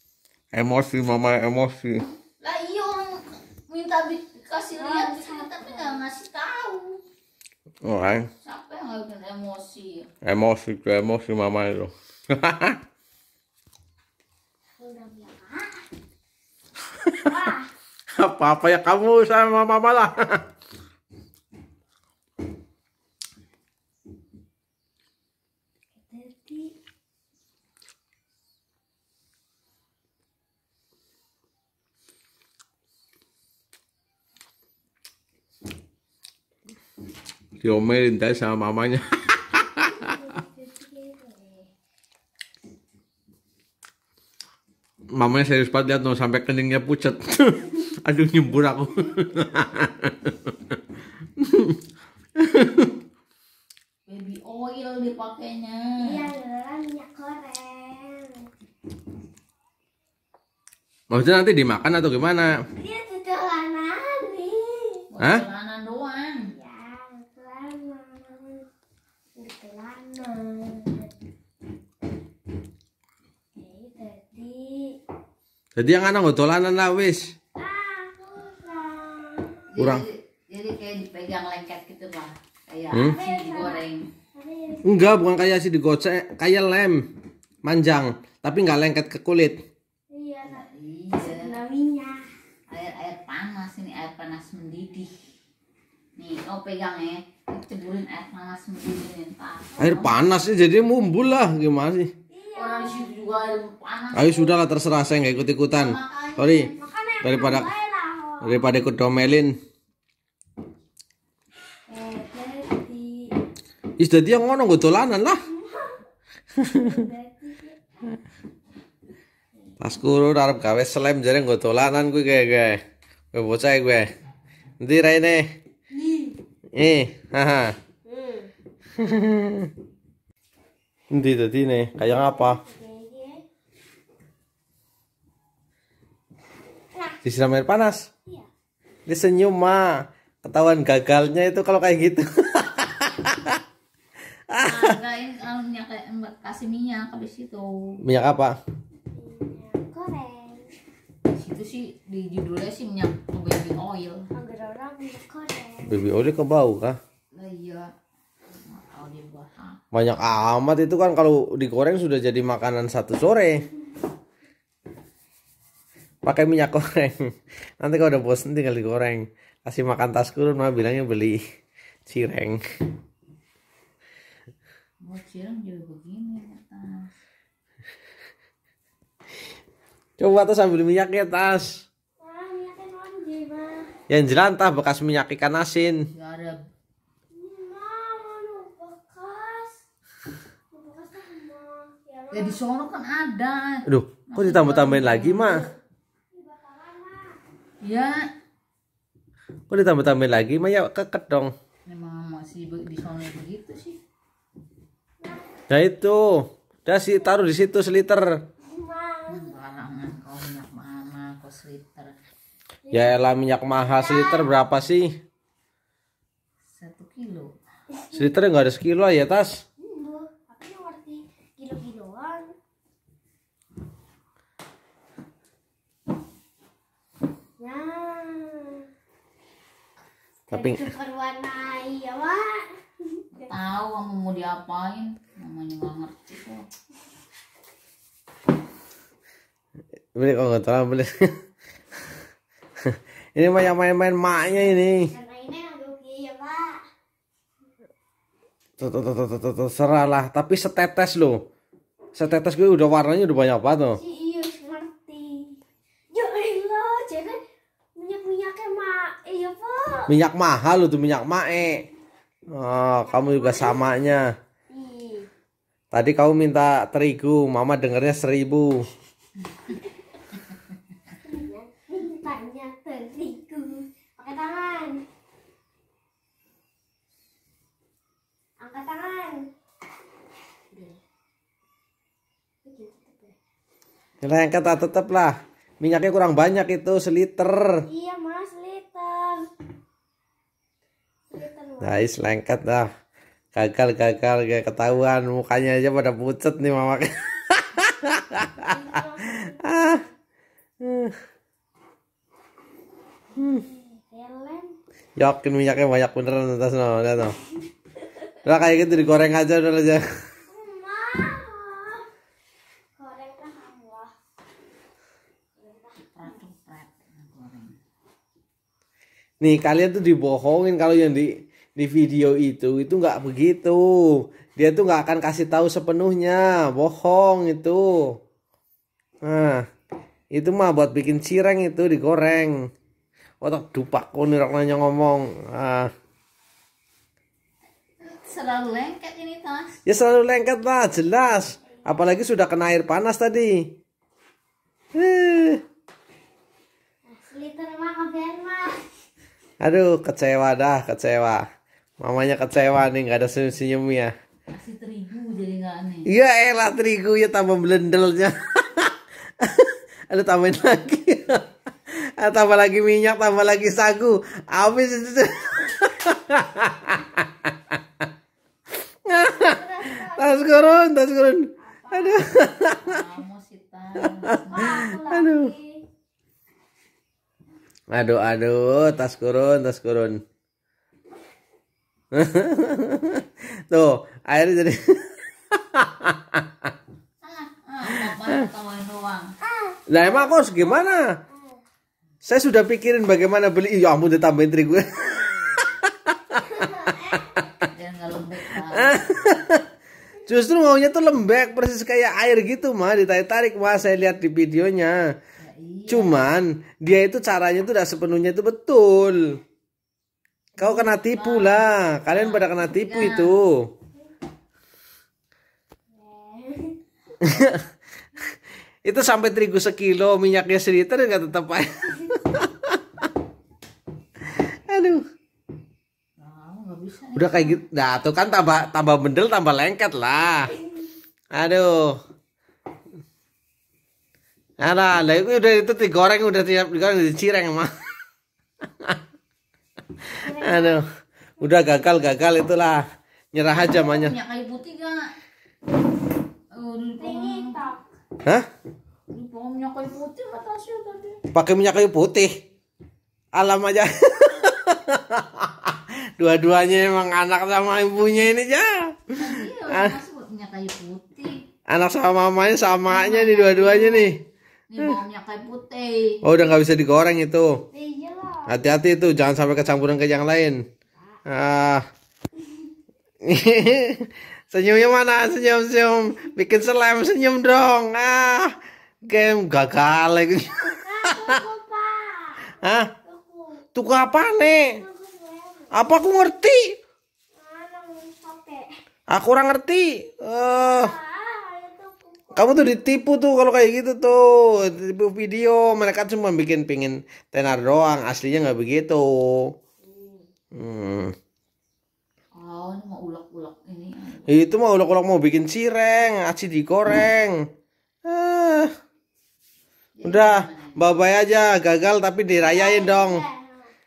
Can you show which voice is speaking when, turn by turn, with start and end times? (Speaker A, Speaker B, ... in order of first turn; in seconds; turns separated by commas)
Speaker A: 0.5-2.0, Speaker B: 2.4-7.0, Speaker C: 4.8-6.0, Speaker A: 7.8-8.3, Speaker B: 8.4-10.1, Speaker A: 10.2-12.8, Speaker C: 14.8-15.8, Speaker C: 17.2-17.7, Speaker A: 18.2-20.4, Speaker C: 25.9-26.7, Speaker A: 37.6-40.1, Speaker C: 39.9-41.7, Speaker A: 45.1-50.5, Speaker A: 51.4-51.8, Speaker A: 52.4-52.9, Speaker B: 54.0-56.2, Speaker C: 56.0-58.5, Speaker A: 61.1-62.5, Speaker C: 62.8-65.0, Speaker B: 65.1-66.5, Speaker C: 66.4-68.6, Speaker C: 69.3-71.1, Speaker C: 73.5-75.0, Speaker A: 75.8-77.3, Speaker C: 77.5-79.6, Speaker B: 79.7-84.1, Speaker A: 79.8-80.0, Speaker C: 83.0-85.2, Speaker A: 84.8-87.1, Speaker A: 87.6-89.6, Speaker C: 90.1-92.2, Speaker B: 90.5-91.5, Speaker B: 92.7-95.1, Speaker B: 96.2-100.2, Speaker A: 99.8-102.1, Speaker C: 102.3-103.1, Speaker B: 102.5-104.6, Speaker A: 104.1-106.7, Speaker B: 105.7-106.5, Speaker C: 106.4-108.7, Speaker A: 107.2-107.7, Speaker A: 108.4-109.6, Speaker C: 111.9-113.3, Speaker A: 114.0-115.4, Speaker C: 115.5-116.0, Speaker A: 116.6-116.9, Speaker C: 116.7-117.8, Speaker A: 119.8-122.8, Speaker A: 123.3-124.1, Speaker A: 124.8-125.5, Speaker C: 125.9-126.4, Speaker A: 126.8-127.8, Speaker C: 128.0-128.5, Speaker A: 129.0-129.7, Speaker A: 131.1-132.6, Speaker C: 132.0-133.4, Speaker C: 136.9-137.2, Speaker A: 137.2-138.1, Speaker A: 139.1-143.6, Speaker A: 144.5-145.0, Speaker B: 144.6-147.7, Speaker A: 148.0-148.6, Speaker C: 149.1-150.7, Speaker B: 151.3-154.3, Speaker C: 154.3-155.9, Speaker A: 155.8-157.0, Speaker B: 157.3-157.9, Speaker B: 158.6-159.8, Speaker A: 159.9-163.7, Speaker A: 166.2-171.4, Speaker A: 172.1-172.6, Speaker B: 175.0-177.1, Speaker A: 180.2-181.8, Speaker C: 182.2-183.9, Speaker A: 184.1-186.0, Speaker B: 186.1-186.7, Speaker C: 187.3-189.8, Speaker C: 190.7-192.8, Speaker B: 192.3-195.7, Speaker A: 193.9-195.6, Speaker C: 196.3-197.4, Speaker B: 197.8-198.3, Speaker A: 199.7-201.5, Speaker B: 201.9-204.0, Speaker A: 205.7-208.3, Speaker C: 208.6-209.5, Speaker B: 209.3-212.2, Speaker C: 212.8-214.5, Speaker A: 212.9-215.1, Speaker B: 216.7-217.5, Speaker C: 218.0-218.3, Speaker A: 218.1-219.6, Speaker C: 219.8-222.5, Speaker C: 227.6-228.8, Speaker C: 230.5-233.5, Speaker A: 230.5-230.8, Speaker B: 233.5-236.6, Speaker A: 240.1-241.3, Speaker A: 242.8-245.1, Speaker C: 245.1-246.8, Speaker A: 248.8-251.4, Speaker A: 252.1-254.0, Speaker C: 253.9-255.6, Speaker C: 256.1-257.4, Speaker C: 257.9-260.1, Speaker A: 260.1-261.9, Speaker A: 262.5-264.3, Speaker C: 262.7-264.1, Speaker C: 264.7-265.3, Speaker A: 265.9-268.9, Speaker C: 271.2-275.0, Speaker C: 278.6-279.5, Speaker C: 282.6-283.3, Speaker A: 284.2-287.8, Speaker C: 287.9-289.5, Speaker C: 291.3-292.0, Speaker A: 291.8-292.9, Speaker A: 293.5-298.7, Speaker C: 298.6-300.1, Speaker A: 299.4-300.0, Speaker A: 300.8-301.1, Speaker C: 303.3-304.8, Speaker A: 305.2-307.4, Speaker A: 308.4-310.1, Speaker C: 310.5-312.1, Speaker C: 313.0-314.1, Speaker C: 315.6-316.1, Speaker B: 316.0-317.8, Speaker A: 319.4-328.1, Speaker A: 329.2-329.6, Speaker A: 330.3-332.6, Speaker A: 333.4-335.9, Speaker B: 338.0-339.8, Speaker A: 339.9-343.7, Speaker A: 344.9-345.6, Speaker C: 347.1-348.9, Speaker A: 349.6-351.4, Speaker A: 352.0-354.1, Speaker B: 354.5-356.1, Speaker A: 356.1-367.5, Speaker A: 369.1-373.0, Speaker C: 369.2-370.9, Speaker C: 371.6-372.3, Speaker B: 372.6-374.8, Speaker A: 374.4-375.5, Speaker C: 374.5-375.8, Speaker A: 377.9-380.2, Speaker A: 382.1-386.7, Speaker B: 387.2-389.3, Speaker C: 389.4-391.6, Speaker A: 389.9-391.1, Speaker A: 392.2-396.4, Speaker C: 396.4-397.4, Speaker B: 397.7-399.1, Speaker A: 398.7-399.6, Speaker A: 400.2-405.1, Speaker B: 405.4-406.2, Speaker A: 405.9-409.4, Speaker B: 410.6-413.4, Speaker A: 410.6-413.7, Speaker C: 415.9-416.8, Speaker A: 417.2-417.6, Speaker A: 418.8-422.8, Speaker A: 424.2-425.0, Speaker B: 426.2-427.6, Speaker A: 427.1-430.5, Speaker A: 431.3-432.0, Speaker A: 434.6-437.7, Speaker C: 440.1-440.8, Speaker A: 440.3-440.8, Speaker A: 441.4-444.1, Speaker B: 443.4-445.1, Speaker B: 446.5-447.6, Speaker C: 447.0-447.8, Speaker B: 449.1-451.2, Speaker A: 451.3-452.3, Speaker A: 453.3-459.9, Speaker B: 458.0-458.3, Speaker B: 459.1-461.4, Speaker A: 461.7-464.2, Speaker B: 462.9-464.2, Speaker B: 464.7-466.2, Speaker A: 466.2-467.6, Speaker C: 467.7-468.6, Speaker A: 468.5-470.6, Speaker A: 471.3-471.8, Speaker A: 473.2-478.6, Speaker A: 479.1-481.4, Speaker C: 480.8-483.6, Speaker A: 482.6-482.9, Speaker A: 483.7-484.8, Speaker C: 484.6-485.9, Speaker A: 485.7-486.7, Speaker C: 487.4-488.7, Speaker A: 489.1-490.9, Speaker C: 490.6-492.8, Speaker A: 492.3-499.5, Speaker C: 499.8-500.3, Speaker A: 500.5-501.1, Speaker B: 502.3-504.4, Speaker A: 504.3-507.4, Speaker A: 508.1-508.7, Speaker B: 509.9-510.9, Speaker A: 510.0-513.2, Speaker C: 512.4-513.7